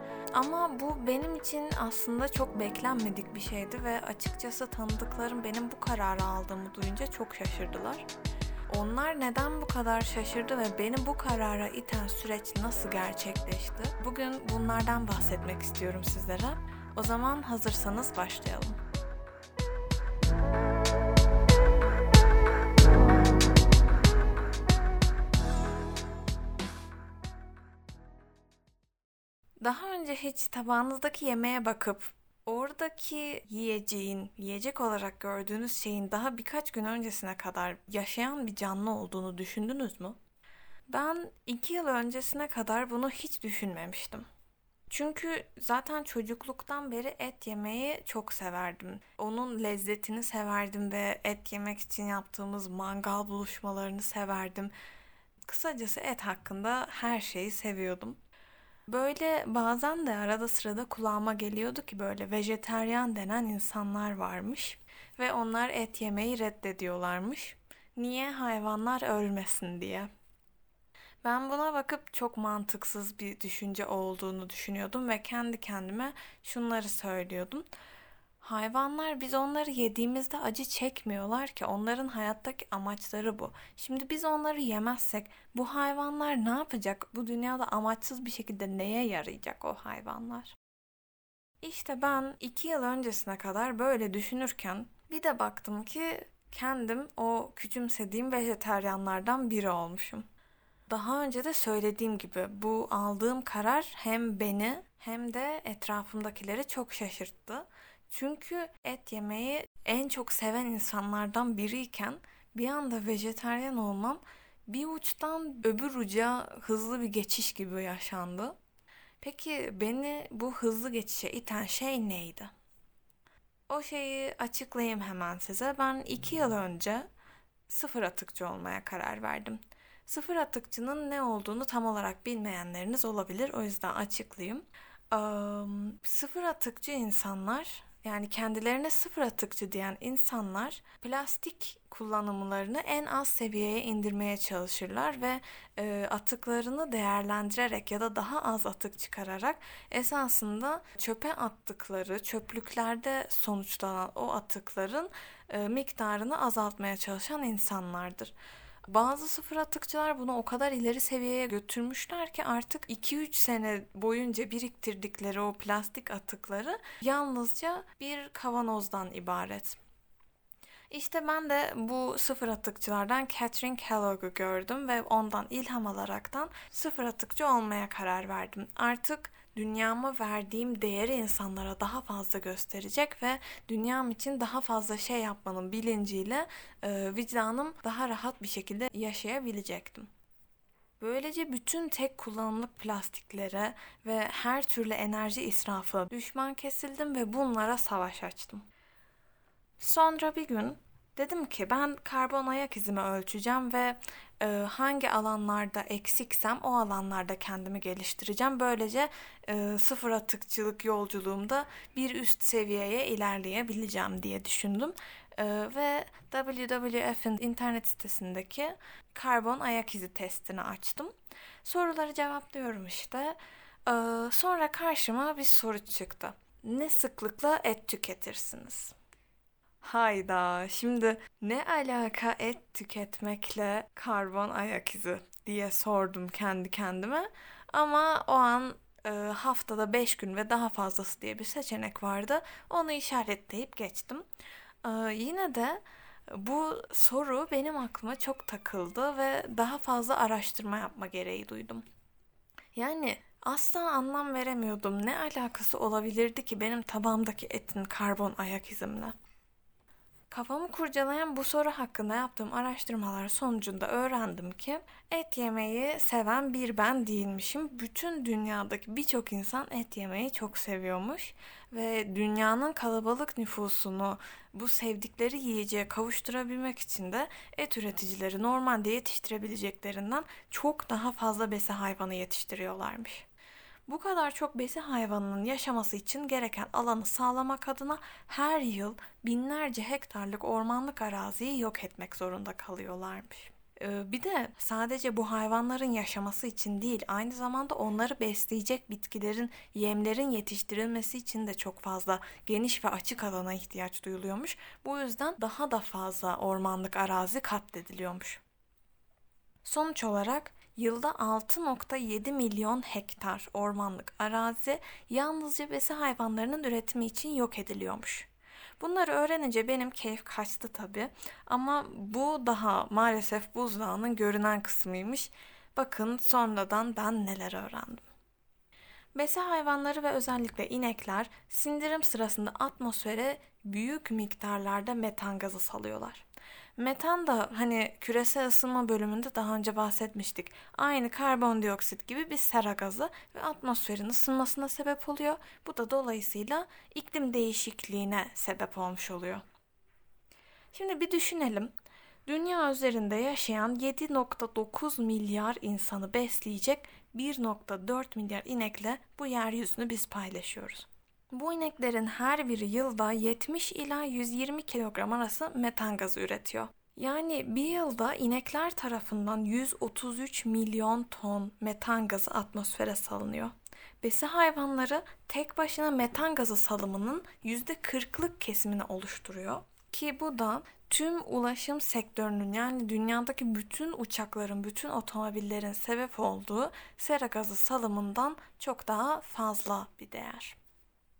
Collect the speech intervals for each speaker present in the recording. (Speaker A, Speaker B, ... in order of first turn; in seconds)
Speaker A: 0.3-8.1, 8.7-18.8, 29.6-40.2, 40.9-44.3, 44.9-54.7, 55.4-58.2, 58.9-70.1, 71.2-77.7, 78.4-90.5, 91.6-100.2, 100.9-118.6, 119.2-122.5, 123.7-127.1, 127.7-158.3, 158.8-169.8, 170.9-190.1, 191.0-198.6, 199.8-221.1, 221.6-228.9, 229.8-244.2, 244.8-251.8, 252.7-259.1, 260.3-283.2, 283.9-308.4, 309.6-318.3, 318.8-328.1, 329.1-336.2, 336.8-349.4, 350.7-351.7, 352.2-390.6